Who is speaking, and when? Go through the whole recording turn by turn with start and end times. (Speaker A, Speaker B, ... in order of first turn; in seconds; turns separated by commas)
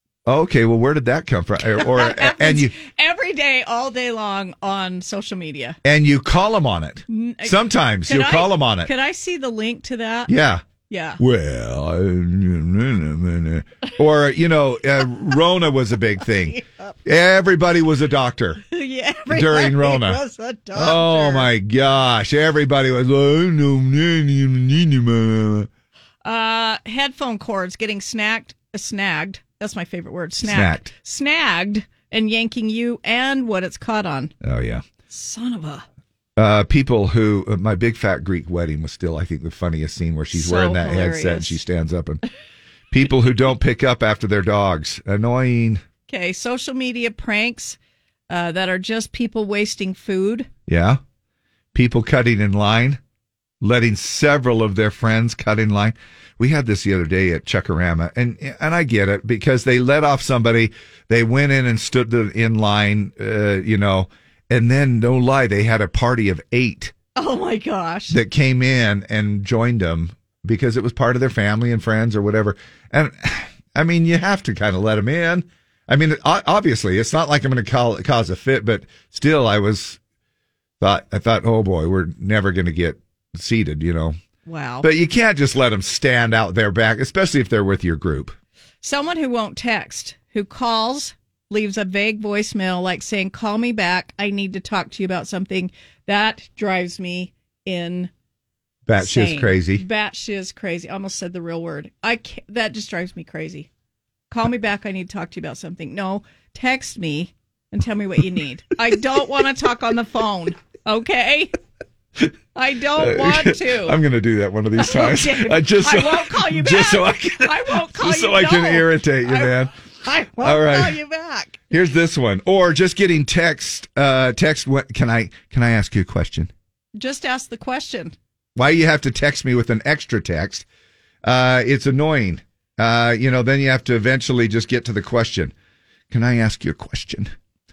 Speaker A: 0.2-2.7, Speaker B: 1.8-5.8, Speaker A: 5.8-8.9, Speaker B: 7.1-10.3, Speaker A: 10.3-10.6, Speaker B: 10.9-11.2, Speaker A: 11.2-18.6, Speaker B: 18.7-21.5, Speaker A: 19.3-20.2, Speaker A: 20.7-25.7, Speaker B: 26.2-34.3, Speaker A: 30.4-30.9, Speaker A: 34.4-34.8, Speaker B: 35.1-35.8, Speaker A: 36.4-42.2, Speaker B: 40.3-41.6, Speaker A: 42.9-45.8, Speaker B: 46.1-47.8, Speaker B: 48.3-50.5, Speaker A: 50.7-51.0, Speaker A: 51.7-53.0, Speaker A: 53.6-66.9, Speaker B: 67.2-68.2, Speaker A: 68.1-80.0, Speaker A: 80.8-84.2, Speaker B: 84.5-84.9, Speaker A: 84.8-88.3, Speaker B: 88.8-98.1, Speaker A: 98.8-99.8, Speaker B: 99.0-103.7, Speaker B: 104.3-111.5, Speaker B: 112.5-114.0, Speaker A: 113.0-119.7, Speaker B: 114.8-121.6, Speaker A: 120.4-121.0, Speaker A: 121.7-126.5, Speaker B: 127.0-128.1, Speaker A: 128.6-130.6, Speaker A: 131.2-135.5, Speaker A: 136.1-137.3